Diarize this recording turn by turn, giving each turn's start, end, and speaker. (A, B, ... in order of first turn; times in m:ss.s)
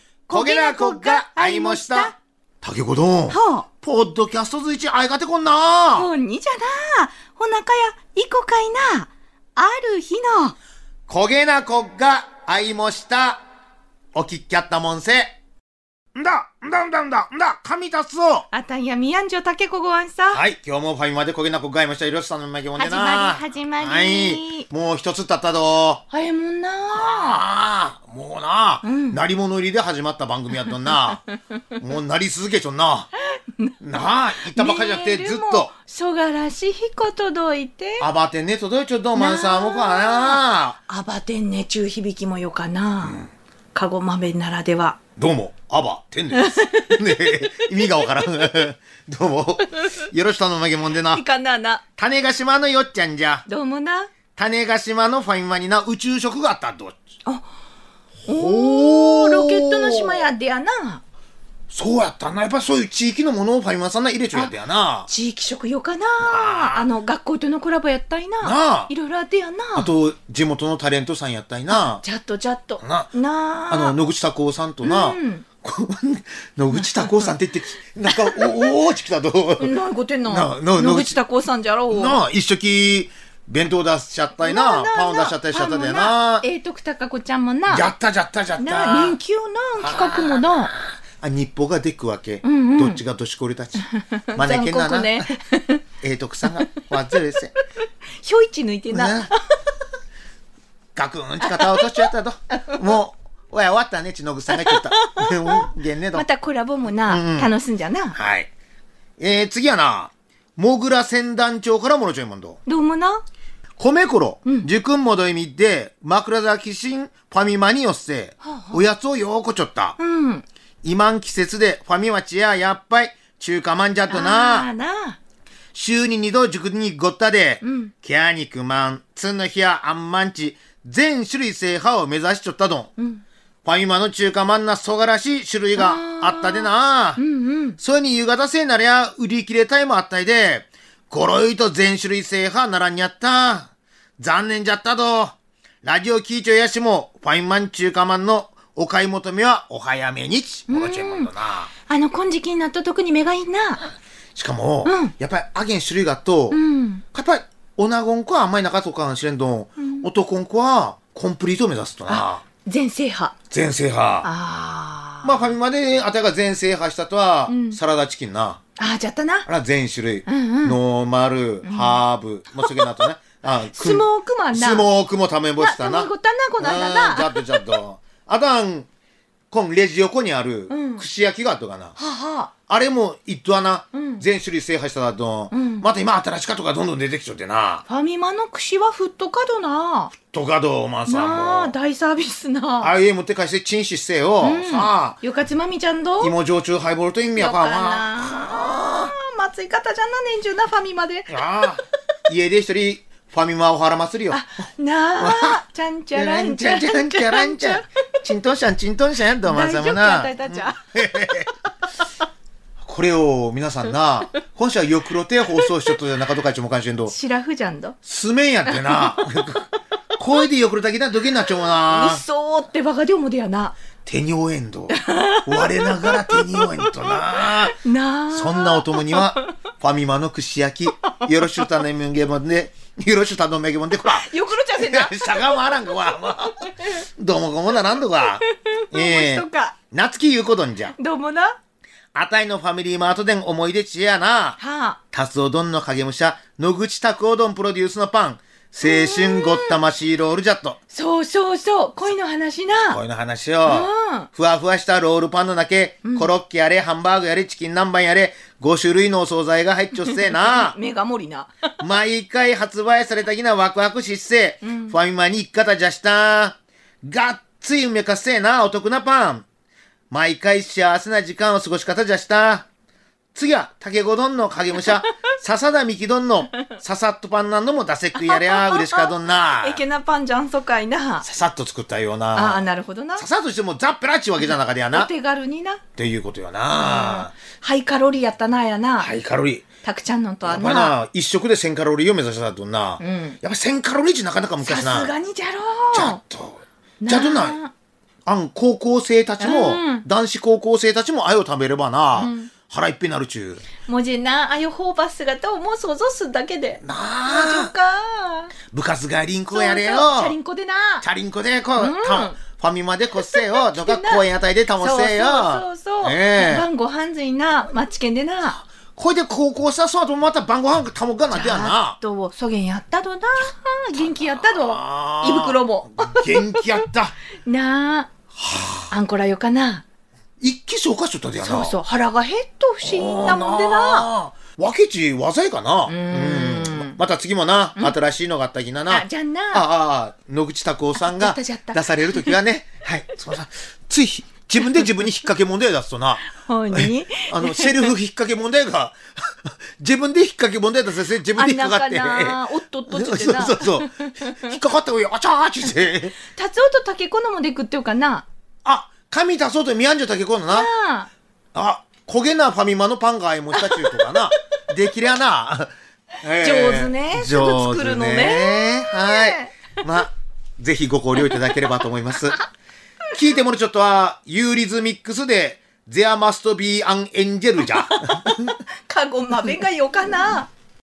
0:00.3-0:02.2 A
0:00.3-0:06.1 B
0:03.3-0:03.7 A
0:06.0-0:10.6 A
0:11.1-0:13.4 B
0:14.1-0:15.3 B
0:16.1-0:18.5 B
0:18.5-0:20.4 A
0:20.3-0:26.0 B
0:22.8-0:24.6 A
0:26.1-0:27.4 A
0:26.9-0:31.2 B
0:28.8-0:29.2 A
0:31.8-0:33.1 B
0:33.8-0:35.7 B
0:34.5-0:38.1 A
0:38.0-0:40.8 B
0:39.1-0:43.2 A
0:43.8-0:45.0 A
0:45.2-0:51.2 B
0:46.3-0:47.2 A
0:51.1-0:51.8 A
0:52.0-0:53.4 B
0:53.5-0:54.1 A
0:54.3-0:56.9 B
0:58.2-1:01.0 A
0:58.3-1:00.3 B
1:01.7-1:05.1 B
1:05.1-1:09.9 A
1:06.2-1:06.9 B
1:08.4-1:08.9 B
1:09.8-1:12.0 B
1:11.7-1:14.0 A
1:12.8-1:13.1 B
1:13.7-1:21.2 B
1:14.8-1:15.4 A
1:16.7-1:17.3 A
1:18.1-1:18.7 A
1:19.6-1:22.2 A
1:21.9-1:26.5 B
1:24.4-1:27.9 A
1:27.7-1:29.2 B
1:28.6-1:30.7 A
1:29.8-1:35.3 B
1:32.4-1:33.0 A
1:33.8-1:35.8 A
1:36.0-1:37.6 B
1:38.2-1:39.4 A
1:38.9-1:39.3 B
1:41.0-1:46.2 B
1:41.4-1:42.0 A
1:44.5-1:48.2 A
1:47.0-1:47.5 B
1:48.1-1:48.5 B
1:49.2-1:52.6 B
1:52.7-1:53.2 A
1:53.8-2:00.0 B
1:58.4-1:58.8 A
2:00.0-2:00.4 A
2:00.8-2:04.7 B
2:04.1-2:05.2 A
2:05.7-2:12.9 B
2:07.6-2:07.9 A
2:13.0-2:13.2 A
2:13.6-2:17.2 B
2:15.8-2:17.8 A
2:17.8-2:31.7 B
2:30.7-2:31.3 A
2:31.9-2:33.9 A
2:34.3-2:36.6 B
2:34.8-2:35.1 A
2:36.5-2:37.0 A
2:37.1-2:42.4 B
2:39.8-2:40.1 A
2:42.1-2:43.3 A
2:43.5-2:44.3 B
2:44.2-2:45.5 A
2:45.2-2:48.6 B
2:47.5-2:47.8 A
2:48.8-2:49.5 A
2:49.5-2:58.9 B
2:50.3-2:50.8 A
2:51.6-2:52.0 A
2:52.6-2:53.0 A
2:53.7-2:54.9 A
2:55.6-2:57.8 A
2:59.5-3:02.0 B
3:00.7-3:01.0 A
3:02.0-3:02.5 A
3:02.7-3:07.8 B
3:03.9-3:04.2 A
3:05.5-3:05.9 A
3:07.9-3:10.1 A
3:10.2-3:11.7 B
3:11.1-3:12.9 A
3:12.8-3:15.2 B
3:14.4-3:16.3 A
3:16.2-3:19.1 B
3:17.4-3:21.7 A
3:21.3-3:24.4 B
3:24.3-3:27.9 A
3:25.2-3:25.6 B
3:26.2-3:31.5 B
3:29.4-3:30.8 A
3:32.8-3:37.1 B
3:37.1-3:38.0 A
3:38.0-3:42.2 B
3:38.7-3:39.2 A
3:41.9-3:43.8 A
3:44.0-3:47.8 B
3:44.9-3:47.2 A
3:47.8-3:49.4 A
3:48.3-4:01.0 B
3:54.0-3:55.6 A
3:58.2-3:59.8 A
4:01.0-4:01.6 A
4:02.1-4:04.6 B
4:04.6-4:05.0 A
4:05.1-4:10.8 B
4:08.8-4:09.8 A
4:10.9-4:13.0 A
4:12.9-4:20.8 B
4:13.7-4:14.3 A
4:16.0-4:16.3 A
4:20.0-4:21.5 A
4:21.8-4:29.4 B
4:24.6-4:25.0 A
4:30.1-4:32.7 B
4:33.4-4:39.8 B
4:38.1-4:41.2 A
4:41.2-4:42.6 B
4:42.3-4:43.2 A
4:43.2-4:45.1 B
4:44.9-4:45.8 A
4:46.0-4:47.3 B
4:46.8-4:49.1 A
4:49.0-4:49.6 B
4:49.8-4:51.0 A
4:50.4-4:55.1 B
4:53.0-4:53.4 A
4:54.6-4:56.2 A
4:55.9-4:57.6 B
4:57.0-4:57.7 A
4:58.2-5:03.7 B
4:59.4-5:00.0 A
5:02.2-5:02.5 A
5:03.8-5:08.5 A
5:06.8-5:07.7 B
5:08.7-5:10.4 B
5:09.5-5:11.0 A
5:11.0-5:16.7 B
5:11.8-5:12.4 A
5:13.2-5:14.2 A
5:14.8-5:18.6 A
5:18.9-5:22.0 B
5:21.3-5:26.8 A
5:24.0-5:27.2 B
5:27.4-5:28.1 A
5:28.4-5:28.9 B
5:28.9-5:29.8 A
5:30.4-5:31.7 B
5:31.4-5:34.1 A
5:32.8-5:56.2 B
5:35.9-5:37.0 A
5:38.9-5:39.7 A
5:41.0-5:42.3 A
5:46.4-5:47.9 A
5:51.4-5:54.6 A
5:56.3-5:58.2 A
5:58.6-6:00.7 B
6:00.5-6:01.1 A
6:01.6-6:12.4 B
6:03.5-6:04.3 A
6:06.4-6:09.6 A
6:13.1-6:18.6 B
6:17.7-6:20.5 A